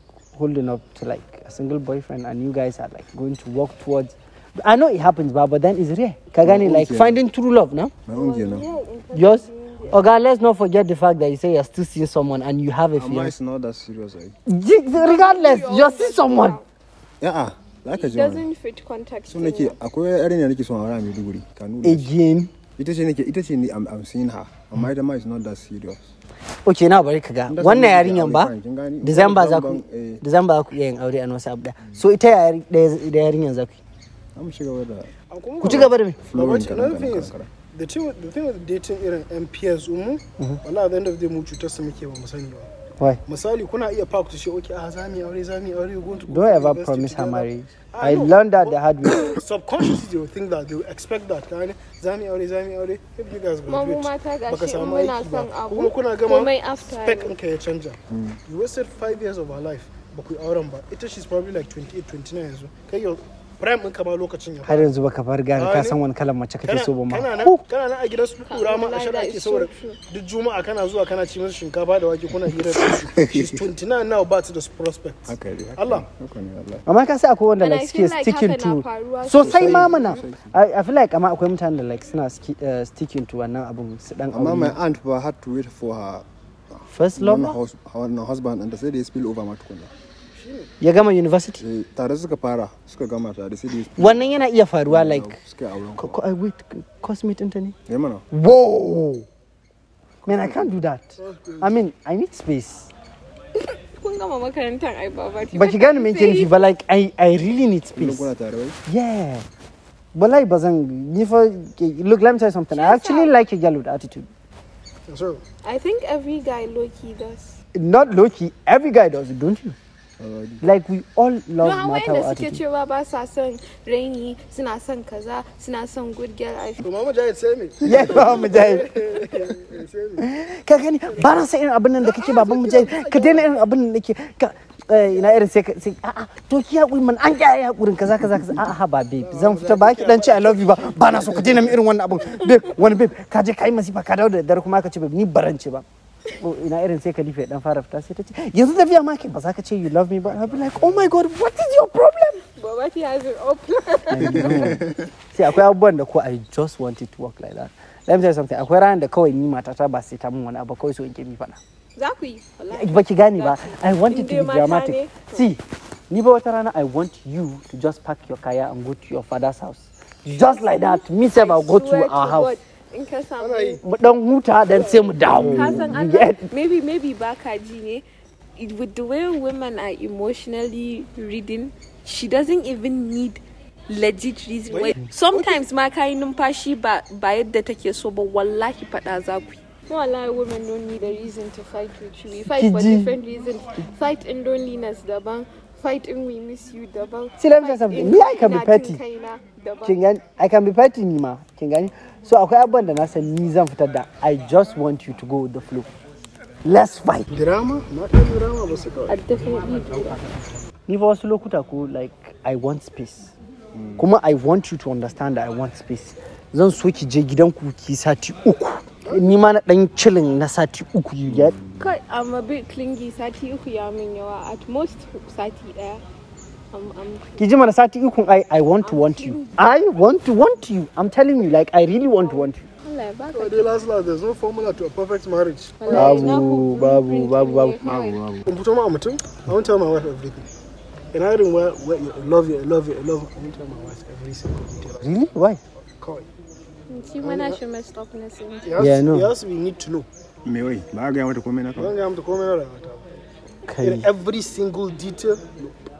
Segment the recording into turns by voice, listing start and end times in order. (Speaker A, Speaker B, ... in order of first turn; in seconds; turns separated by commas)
Speaker A: 0.3-7.9, Speaker B: 6.4-7.2, Speaker B: 8.1-8.7, Speaker C: 8.1-10.0, Speaker A: 9.1-13.3, Speaker B: 12.9-14.3, Speaker A: 14.5-16.6, Speaker C: 14.9-16.6, Speaker B: 17.2-18.4, Speaker C: 17.9-19.8, Speaker B: 19.3-22.1, Speaker A: 21.8-22.5, Speaker B: 22.8-26.1, Speaker A: 26.6-33.8, Speaker B: 27.5-30.2, Speaker B: 34.3-37.5, Speaker D: 35.3-42.7, Speaker A: 35.6-36.2, Speaker D: 43.3-64.9, Speaker A: 46.3-49.3, Speaker C: 53.7-57.4, Speaker B: 58.1-58.4, Speaker A: 64.7-67.6, Speaker D: 65.5-66.0, Speaker D: 66.6-76.0, Speaker C: 68.5-70.0, Speaker B: 72.8-73.7, Speaker B: 75.3-76.8, Speaker A: 76.8-84.8, Speaker C: 77.6-79.8, Speaker B: 79.3-80.5, Speaker D: 79.4-80.2, Speaker B: 84.3-89.9, Speaker A: 86.9-87.6, Speaker D: 90.3-90.7, Speaker A: 90.8-91.6, Speaker B: 91.6-96.2, Speaker A: 94.0-95.4, Speaker A: 96.0-97.8, Speaker B: 97.9-98.2, Speaker A: 98.3-99.2, Speaker A: 100.2-102.9, Speaker D: 101.2-101.7, Speaker C: 103.5-106.6, Speaker A: 105.5-108.3, Speaker B: 108.0-108.8, Speaker A: 108.8-109.4, Speaker A: 110.1-114.3, Speaker C: 112.7-113.3, Speaker D: 115.1-115.4, Speaker C: 115.6-117.6, Speaker A: 117.8-119.8, Speaker B: 120.2-120.7, Speaker A: 120.6-122.6, Speaker C: 121.6-126.8, Speaker D: 126.8-130.2, Speaker A: 127.8-128.9, Speaker A: 130.2-145.8, Speaker D: 131.1-131.4, Speaker D: 132.0-133.6, Speaker D: 139.2-141.8, Speaker A: 146.4-152.4, Speaker D: 150.2-151.2, Speaker C: 152.4-154.6, Speaker A: 154.1-154.8, Speaker B: 154.3-154.9, Speaker A: 155.3-161.6, Speaker C: 161.9-165.5, Speaker A: 162.7-172.6, Speaker C: 170.4-173.8, Speaker D: 173.4-173.8, Speaker A: 173.8-176.5, Speaker C: 174.7-178.0, Speaker D: 175.3-175.8, Speaker B: 175.6-175.8, Speaker C: 178.6-200.0, Speaker D: 184.7-185.6, Speaker A: 192.3-193.2, Speaker A: 197.4-199.0, Speaker A: 199.8-205.9, Speaker A: 206.6-207.3, Speaker D: 207.3-210.1, Speaker C: 209.1-210.2, Speaker A: 210.9-213.3, Speaker B: 213.8-214.0, Speaker A: 214.0-221.6, Speaker B: 221.3-221.8, Speaker C: 221.8-226.0, Speaker C: 226.7-227.4, Speaker A: 227.4-232.7, Speaker C: 228.8-229.6, Speaker C: 232.2-233.7, Speaker D: 233.3-236.2, Speaker C: 235.8-238.2, Speaker A: 235.9-237.8, Speaker B: 237.8-238.4, Speaker D: 238.4-240.5, Speaker D: 241.1-245.2, Speaker A: 245.0-245.6, Speaker D: 246.0-246.3, Speaker C: 246.9-248.8, Speaker D: 247.2-247.6, Speaker D: 248.6-250.1, Speaker A: 248.8-249.3, Speaker B: 250.4-251.9, Speaker D: 251.8-253.1, Speaker A: 253.7-254.1, Speaker D: 253.8-255.8